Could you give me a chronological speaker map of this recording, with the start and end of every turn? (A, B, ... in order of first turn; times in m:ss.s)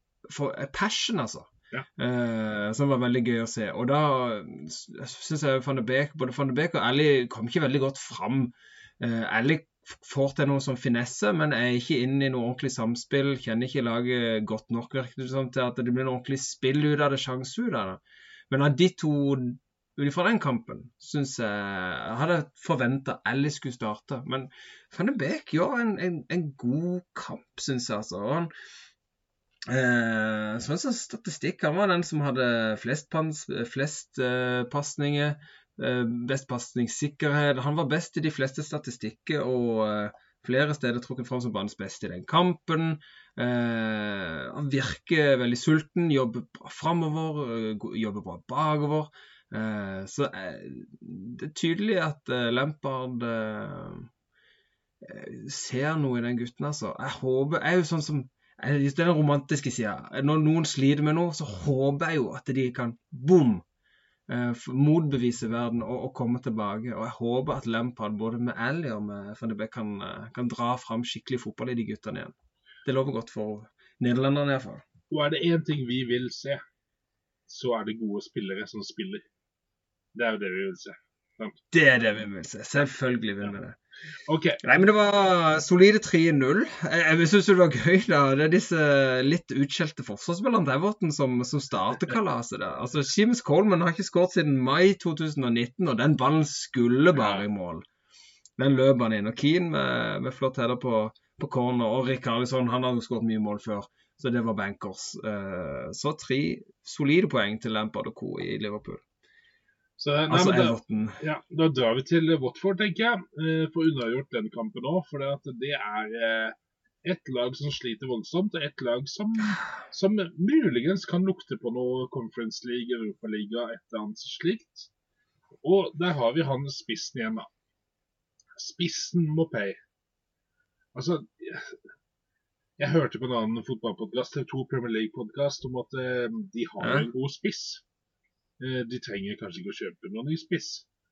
0:00.3-0:28.5 A
0:29.7-0:54.1 A
0:55.0-1:03.6 A
1:04.3-1:12.3 A
1:12.8-1:14.8 A
1:15.1-1:16.6 B
1:17.5-1:19.2 B
1:20.1-1:21.6 B
1:21.7-1:23.8 A
1:24.3-1:24.6 B
1:24.6-1:37.8 A
1:37.1-1:37.4 B
1:38.6-1:49.0 A
1:50.0-2:04.9 B
1:50.3-1:51.2 A
2:05.6-2:07.5 B
2:08.6-2:09.8 B
2:10.9-2:11.8 B
2:12.8-2:17.8 B
2:16.8-2:17.1 A
2:18.6-2:20.8 B